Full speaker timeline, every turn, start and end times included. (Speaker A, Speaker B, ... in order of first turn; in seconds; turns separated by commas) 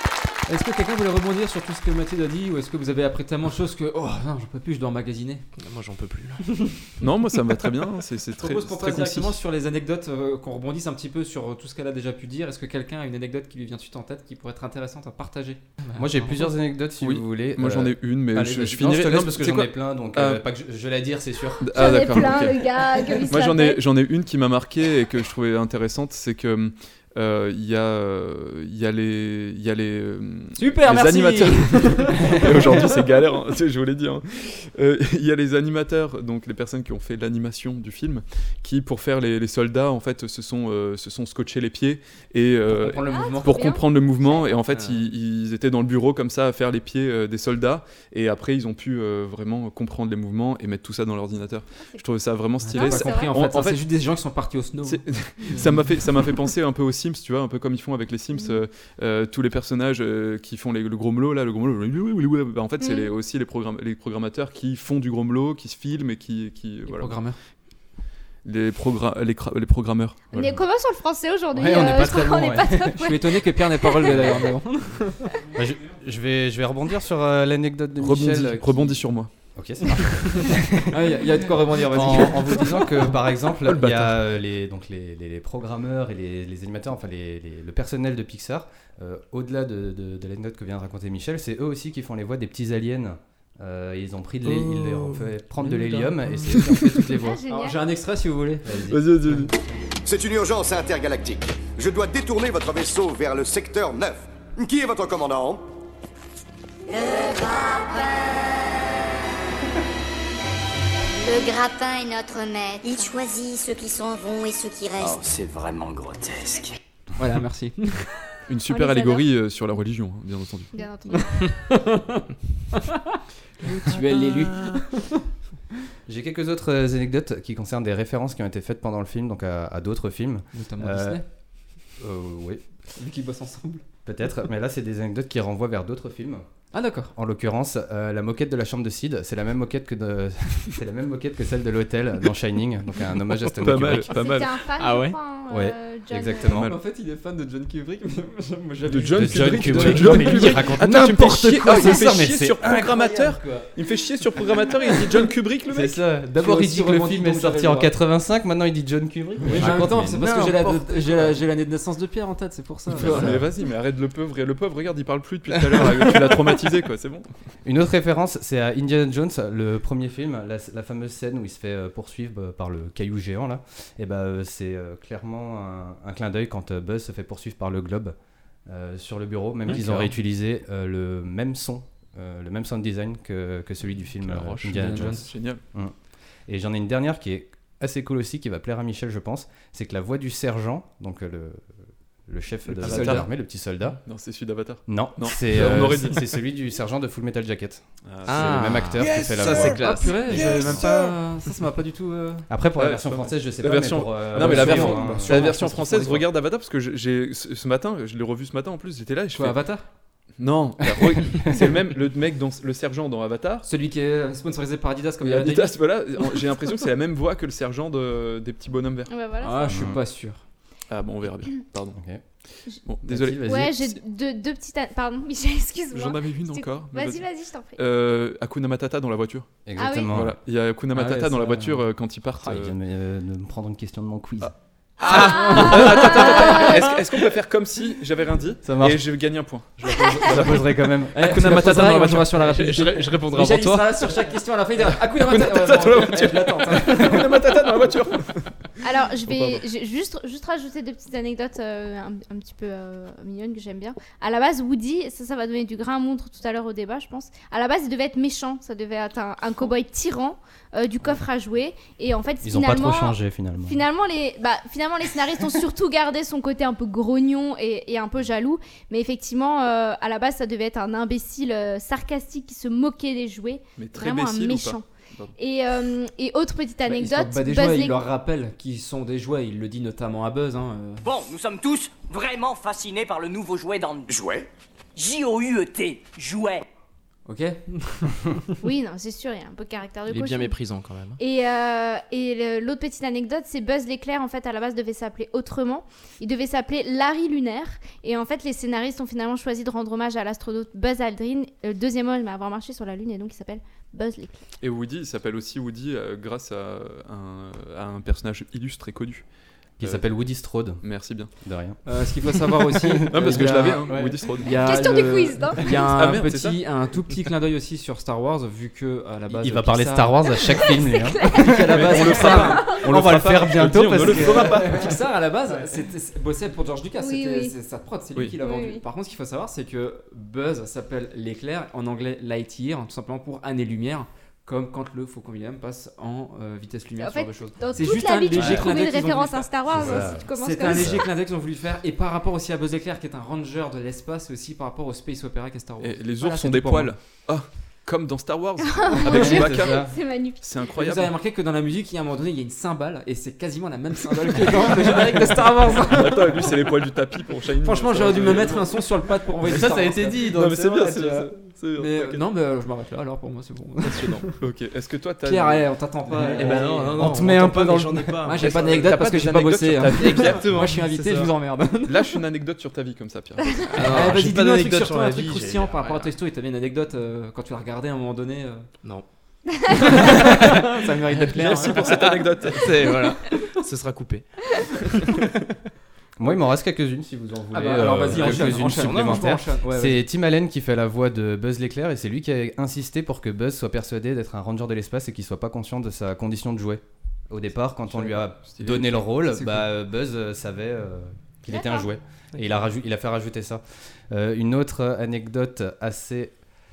Speaker A: 0.5-5.5, Speaker B: 5.6-6.7, Speaker C: 7.0-9.4, Speaker A: 8.4-16.5, Speaker D: 15.9-22.4, Speaker C: 17.0-20.4, Speaker C: 21.6-53.8, Speaker E: 21.7-23.8, Speaker A: 30.5-32.9, Speaker A: 42.7-43.6, Speaker E: 43.1-44.6, Speaker A: 52.6-55.0, Speaker E: 52.7-53.3, Speaker C: 54.8-67.2, Speaker E: 62.8-63.1, Speaker A: 66.9-67.4, Speaker C: 68.4-70.2, Speaker E: 70.3-74.5, Speaker D: 71.5-73.0, Speaker A: 73.0-75.3, Speaker D: 75.5-97.4, Speaker C: 78.0-79.3, Speaker A: 80.9-83.0, Speaker C: 83.6-84.2, Speaker A: 95.6-96.5, Speaker E: 97.1-97.8, Speaker A: 97.5-98.7, Speaker D: 98.6-99.0, Speaker C: 98.9-99.5, Speaker F: 100.0-105.6, Speaker G: 106.9-108.5, Speaker G: 111.2-115.2, Speaker B: 115.0-116.7, Speaker A: 117.2-118.1, Speaker C: 118.5-120.8, Speaker E: 118.7-119.2, Speaker E: 120.7-121.5, Speaker A: 121.1-123.0, Speaker A: 123.6-125.2, Speaker D: 126.1-131.2, Speaker A: 130.5-131.2, Speaker D: 132.0-132.6, Speaker A: 132.9-133.8, Speaker D: 134.0-136.4, Speaker A: 136.7-137.1, Speaker D: 137.1-144.1, Speaker C: 143.6-144.7, Speaker E: 144.0-146.6, Speaker B: 144.8-145.2, Speaker D: 145.5-146.7, Speaker A: 146.5-150.7, Speaker C: 148.9-156.0, Speaker D: 149.1-153.6, Speaker D: 155.7-161.2, Speaker A: 156.3-157.9, Speaker A: 159.4-163.3, Speaker C: 162.9-167.3, Speaker D: 162.9-163.5, Speaker D: 167.6-178.1, Speaker D: 178.7-185.9, Speaker C: 184.3-185.6, Speaker A: 184.7-185.3, Speaker D: 186.5-191.7, Speaker D: 192.3-194.0, Speaker C: 192.7-193.3, Speaker A: 192.8-193.2, Speaker C: 194.0-196.3, Speaker D: 194.9-200.8, Speaker C: 198.0-199.0, Speaker B: 198.2-200.9, Speaker A: 199.5-202.5, Speaker D: 202.5-205.7, Speaker C: 202.8-209.6, Speaker A: 204.3-206.2, Speaker A: 209.3-209.8, Speaker C: 210.4-213.7, Speaker A: 213.6-215.8, Speaker C: 215.2-219.1, Speaker E: 219.1-219.9, Speaker A: 219.4-220.4, Speaker D: 219.7-220.0, Speaker C: 220.9-222.0, Speaker D: 221.9-222.2, Speaker C: 222.8-223.7, Speaker D: 223.1-223.9, Speaker E: 223.4-227.8, Speaker C: 225.9-227.2, Speaker C: 227.8-229.5, Speaker D: 229.7-230.3, Speaker E: 229.8-230.1, Speaker C: 230.1-232.7, Speaker A: 230.9-231.7, Speaker D: 232.4-236.7, Speaker C: 234.4-243.8, Speaker A: 235.1-236.6, Speaker E: 235.5-236.6, Speaker D: 238.6-239.0, Speaker D: 240.0-242.5, Speaker A: 241.1-247.3, Speaker C: 245.2-248.5, Speaker E: 248.8-263.1, Speaker C: 249.2-249.6, Speaker D: 262.4-263.8, Speaker E: 263.7-274.8, Speaker C: 273.8-275.3, Speaker E: 275.4-278.0, Speaker A: 276.9-281.0, Speaker H: 281.0-284.4, Speaker H: 284.9-286.6, Speaker A: 287.2-288.5, Speaker E: 288.6-290.6, Speaker B: 290.1-291.2, Speaker E: 291.2-304.3, Speaker C: 304.6-309.2, Speaker C: 309.8-310.1, Speaker D: 309.8-310.8, Speaker C: 310.8-311.3, Speaker D: 311.4-314.2, Speaker A: 311.9-320.4, Speaker C: 313.1-314.5, Speaker E: 314.6-315.7, Speaker C: 315.8-316.6, Speaker D: 319.3-324.9, Speaker E: 320.5-322.8, Speaker A: 321.3-322.6, Speaker C: 321.8-324.9, Speaker A: 324.1-346.9, Speaker E: 327.0-327.6, Speaker E: 328.4-328.8, Speaker E: 337.0-340.9, Speaker D: 338.3-338.7, Speaker D: 339.7-341.1, Speaker C: 345.8-351.1, Speaker E: 348.6-350.4, Speaker D: 349.0-349.9, Speaker A: 350.7-356.4, Speaker C: 354.4-358.7, Speaker A: 357.6-360.1, Speaker D: 359.4-361.3, Speaker C: 360.2-362.2, Speaker A: 361.8-364.4, Speaker C: 363.8-366.6, Speaker A: 365.2-366.9, Speaker D: 366.4-368.2, Speaker B: 366.4-369.1, Speaker A: 368.2-372.0, Speaker C: 368.4-374.1, Speaker B: 373.8-376.1, Speaker A: 373.8-378.7, Speaker A: 379.8-382.0, Speaker B: 379.9-380.5, Speaker B: 381.1-384.2, Speaker C: 381.3-382.7, Speaker D: 386.2-406.3, Speaker A: 387.5-390.0, Speaker C: 388.2-388.6, Speaker C: 397.9-398.8, Speaker A: 398.6-399.7, Speaker E: 401.5-401.9